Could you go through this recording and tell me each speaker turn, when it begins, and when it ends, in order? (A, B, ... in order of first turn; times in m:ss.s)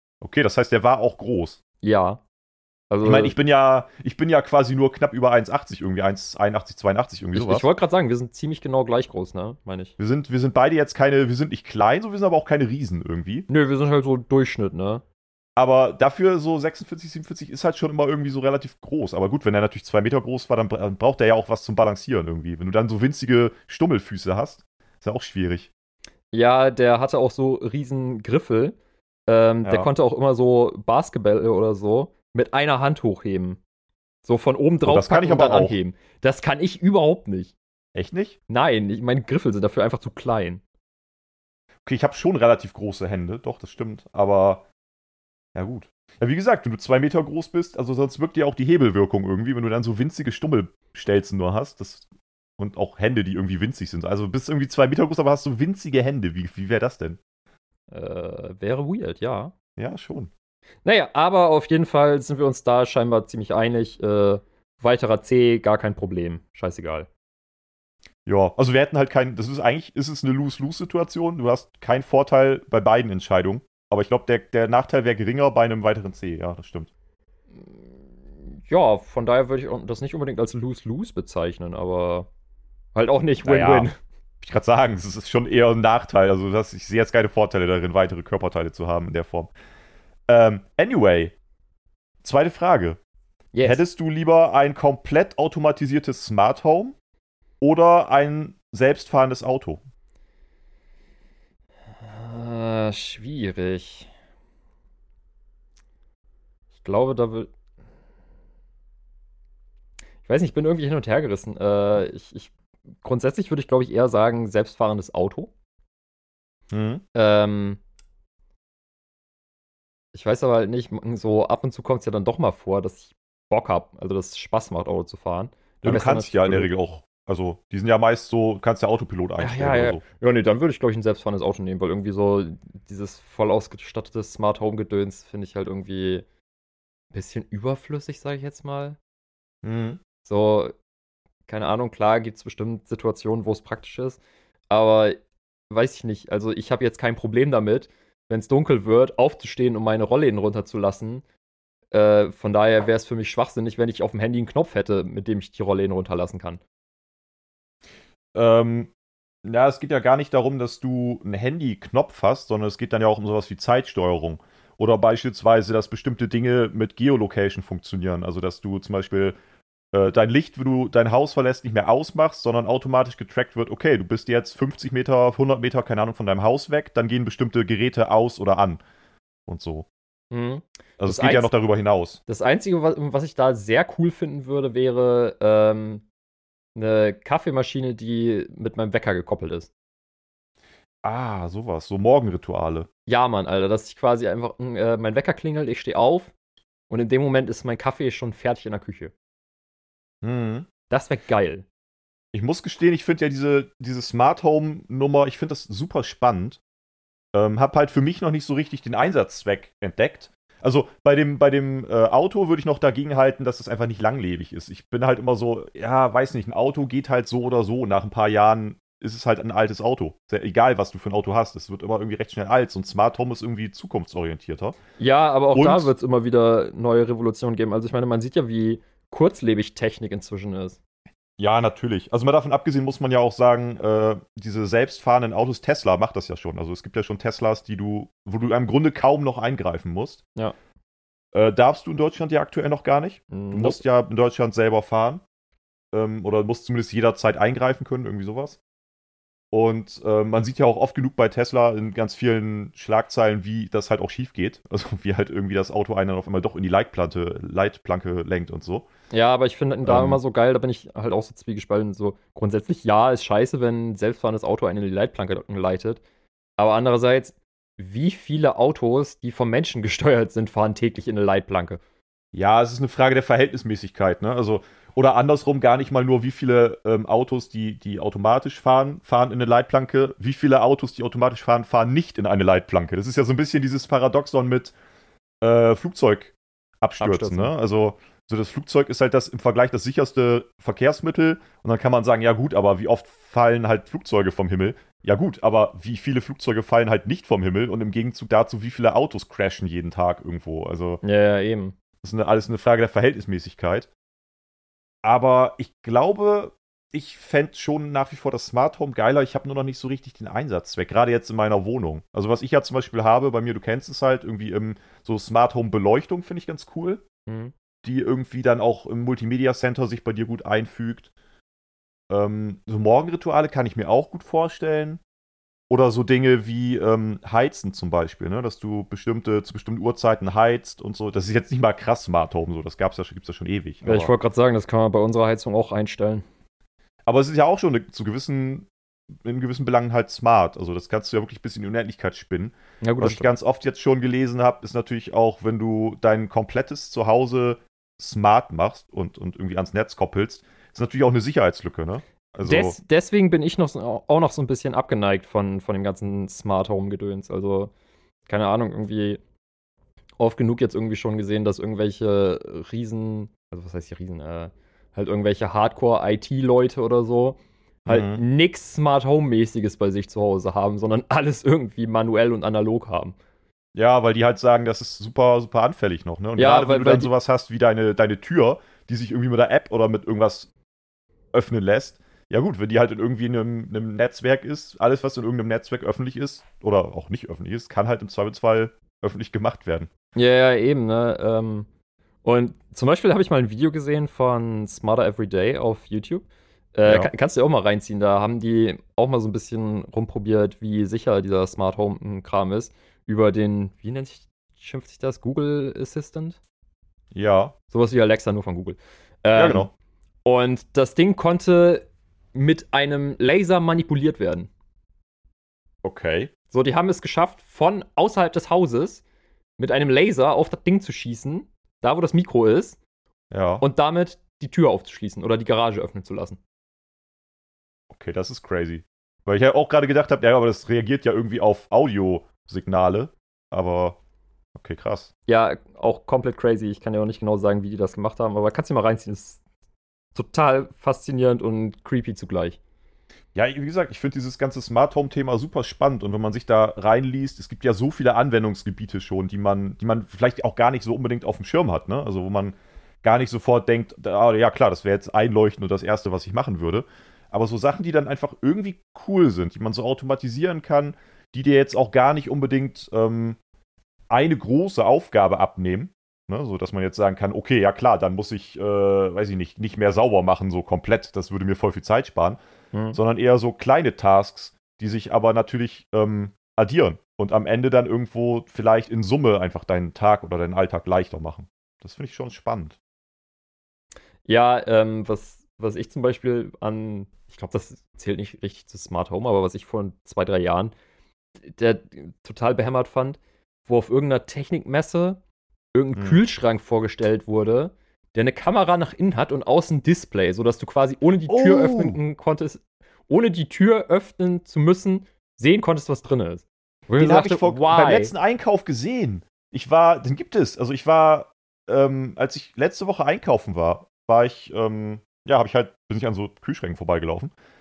0:00.2-0:01.6 A
0:01.8-0:02.2 B
0:02.9-0:03.3 B
0:03.0-0:07.6 A
0:07.3-0:09.9 B
0:10.0-0:13.5 A
0:13.5-0:15.0 B
0:15.6-0:25.7 A
0:26.3-0:28.8 B
0:29.3-0:33.6 B
0:29.6-0:29.9 A
0:34.2-0:37.5 B
0:34.8-0:35.8 A
0:37.9-0:38.4 A
0:38.5-0:40.6 B
0:41.8-0:44.6 A
0:45.5-0:52.1 A
0:52.6-0:57.2 A
0:57.9-0:59.5 B
0:59.8-1:00.3 A
1:00.8-1:07.1 B
1:08.2-1:16.9 A
1:17.6-1:17.9 B
1:18.5-1:22.3 B
1:22.9-1:24.0 B
1:23.4-1:23.9 A
1:24.4-1:29.5 A
1:30.3-1:31.3 A
1:32.2-1:33.0 A
1:33.5-1:33.8 B
1:33.6-1:36.9 A
1:37.6-1:39.8 A
1:42.0-1:44.1 B
1:46.8-1:47.5 B
1:50.2-1:55.5 B
1:56.7-1:57.0 A
1:57.1-1:57.8 B
2:00.1-2:06.7 B
2:05.8-2:10.0 A
2:09.4-2:16.2 B
2:17.1-2:19.0 B
2:19.6-2:20.0 A
2:20.2-2:20.7 B
2:21.5-2:31.2 B
2:31.9-2:36.6 B
2:38.3-2:38.9 A
2:39.4-2:49.3 A
2:49.9-2:58.8 A
2:59.5-2:59.9 A
3:00.3-3:01.5 B
3:01.0-3:02.2 A
3:02.3-3:06.0 B
3:06.8-3:09.7 B
3:11.0-3:12.9 A
3:13.1-3:16.3 B
3:16.9-3:19.1 B
3:20.2-3:20.7 A
3:20.9-3:21.6 B
3:22.3-3:26.6 A
3:27.3-3:44.8 A
3:45.0-3:50.8 B
3:45.5-3:45.9 A
3:51.4-4:00.2 A
4:01.3-4:05.2 A
4:03.3-4:03.8 B
4:05.9-4:08.6 A
4:09.5-4:18.8 A
4:19.1-4:26.0 B
4:19.8-4:20.2 A
4:26.6-4:31.8 B
4:32.3-4:44.7 A
4:45.4-5:01.0 A
4:47.0-4:47.5 B
5:01.0-5:01.7 B
5:02.0-5:03.9 A
5:05.0-5:17.0 A
5:17.3-5:17.5 B
5:17.8-5:21.1 A
5:22.1-5:25.0 A
5:25.7-5:34.1 A
5:33.8-5:36.2 B
5:37.0-5:38.7 A
5:39.2-5:52.8 A
5:42.8-5:43.3 B
5:52.4-5:57.7 B
5:58.3-5:59.2 B
6:00.2-6:13.2 B
6:07.8-6:08.2 A
6:13.7-6:20.5 A
6:16.4-6:17.1 B
6:21.3-6:29.9 A
6:30.1-6:31.7 B
6:32.2-6:36.2 B
6:36.7-6:46.4 B
6:36.8-6:37.1 A
6:47.1-6:47.6 A
6:47.7-6:49.7 B
6:49.3-6:49.7 A
6:50.2-6:54.5 B
6:55.8-6:56.3 A
6:56.5-6:59.0 B
6:59.6-7:02.8 B
7:03.3-7:03.6 A
7:03.6-7:06.4 B
7:07.9-7:14.0 A
7:14.5-7:15.1 A
7:15.3-7:19.4 B
7:20.1-7:22.6 B
7:23.3-7:43.4 A
7:44.1-7:52.4 A
7:52.7-7:53.0 B
7:52.9-8:02.8 A
8:04.2-8:10.7 B
8:11.4-8:15.2 B
8:15.7-8:28.1 B
8:16.0-8:16.2 A
8:21.3-8:22.0 A
8:27.0-8:37.3 A